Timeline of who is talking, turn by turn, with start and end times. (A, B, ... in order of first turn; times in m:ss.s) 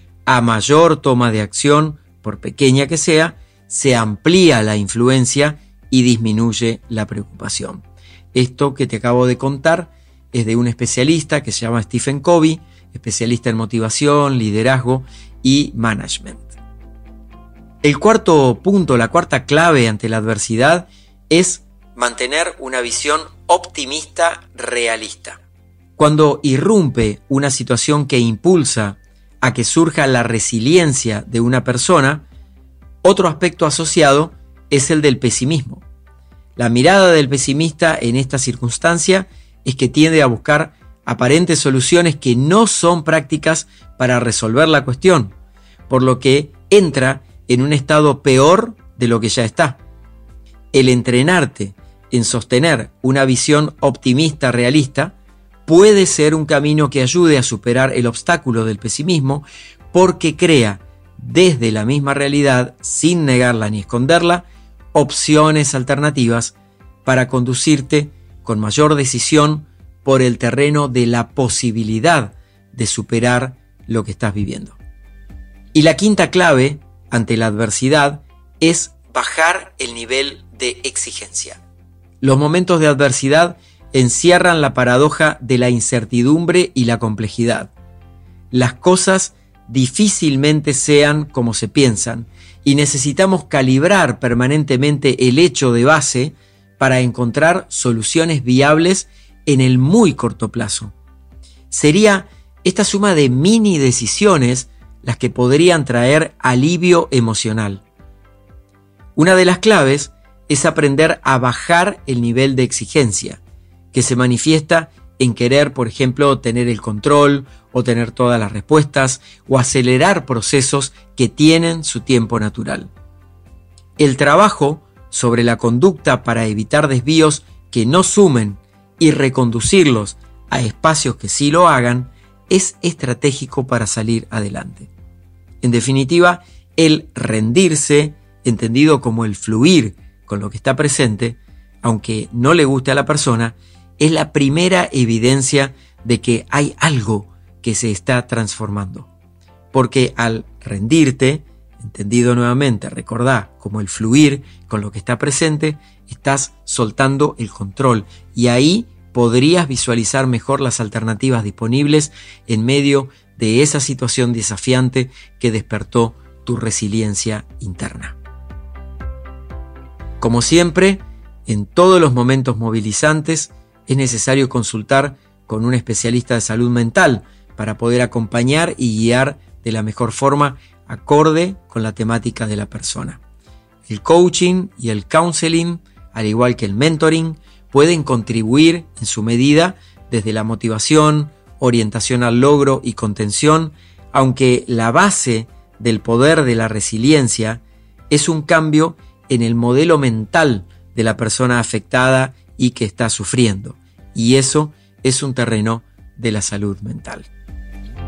0:00.3-0:16.5 A
0:17.8-0:25.4 A
0:26.0-0:32.2 A
0:33.0-0:35.8 A
0:36.6-0:45.3 A
0:45.9-0:49.8 A
0:50.7-0:55.1 A
0:55.6-1:14.8 A
1:15.7-1:21.6 A
1:22.2-1:27.7 A
1:28.5-1:40.9 A
1:41.7-1:47.8 A
1:49.2-1:53.4 A
1:53.9-2:02.9 A
2:04.0-2:14.9 A
2:15.6-2:29.1 A
2:29.7-2:48.2 A
2:50.2-3:03.2 A
3:03.9-3:27.3 A